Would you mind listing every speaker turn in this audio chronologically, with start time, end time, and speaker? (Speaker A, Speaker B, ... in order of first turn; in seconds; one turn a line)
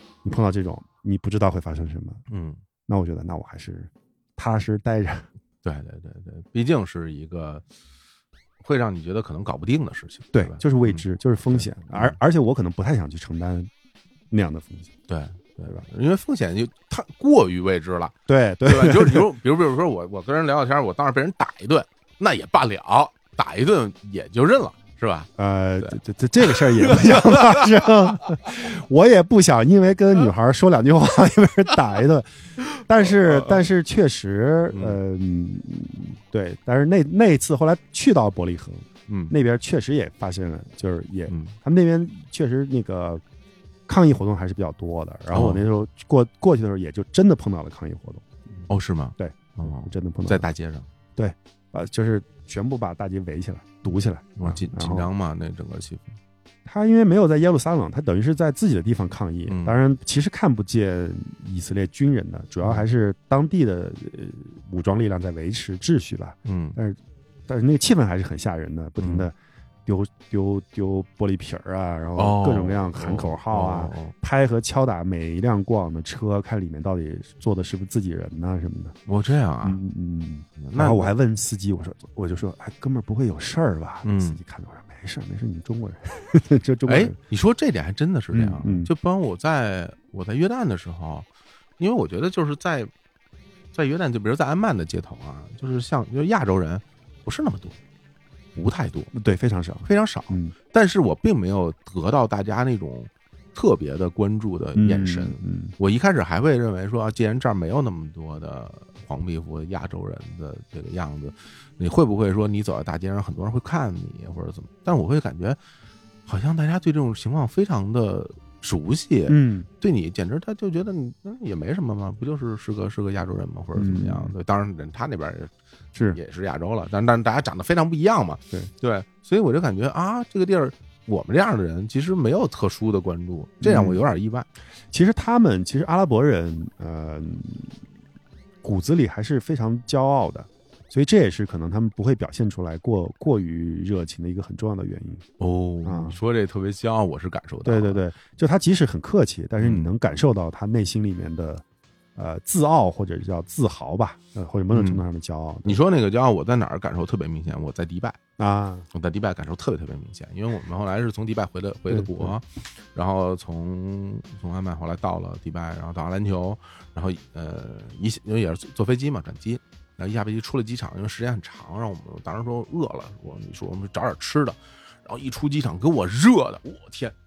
Speaker A: 0.2-2.2
Speaker B: 2.3-2.6
Speaker A: 2.9-5.3
Speaker B: 5.6-7.6
Speaker B: 8.6-12.2
Speaker A: 10.3-13.7
Speaker A: 14.3-14.9
Speaker B: 15.1-27.9
Speaker A: 18.3-19.3
Speaker A: 25.4-43.2
Speaker B: 32.6-33.6
Speaker B: 34.7-35.0
Speaker B: 39.1-39.3
Speaker B: 41.3-41.5
Speaker A: 43.9-50.5
Speaker B: 45.3-45.6
Speaker B: 48.7-50.9
Speaker A: 51.2-55.1
Speaker B: 54.4-56.2
Speaker A: 56.6-69.3
Speaker B: 59.5-59.8
Speaker B: 66.4-66.8
Speaker B: 69.0-69.3
Speaker A: 69.8-78.9
Speaker B: 72.2-74.1
Speaker B: 79.1-79.8
Speaker A: 79.6-87.1
Speaker B: 80.6-81.1
Speaker B: 84.0-84.4
Speaker B: 86.8-91.3
Speaker A: 88.3-88.9
Speaker B: 91.8-92.9
Speaker B: 93.7-97.8
Speaker B: 98.5-99.1
Speaker A: 99.1-100.5
Speaker B: 99.8-115.6
Speaker A: 104.8-105.7
Speaker B: 116.2-125.5
Speaker A: 119.3-119.7
Speaker A: 123.7-124.3
Speaker B: 126.1-134.5
Speaker A: 133.6-134.0
Speaker A: 134.9-137.8
Speaker A: 138.6-145.2
Speaker B: 145.4-148.0
Speaker A: 145.8-146.2
Speaker A: 147.6-151.6
Speaker B: 149.6-149.9
Speaker A: 152.2-155.8
Speaker B: 154.7-155.0
Speaker B: 155.6-158.2
Speaker A: 158.4-158.9
Speaker B: 158.9-177.1
Speaker A: 161.9-162.3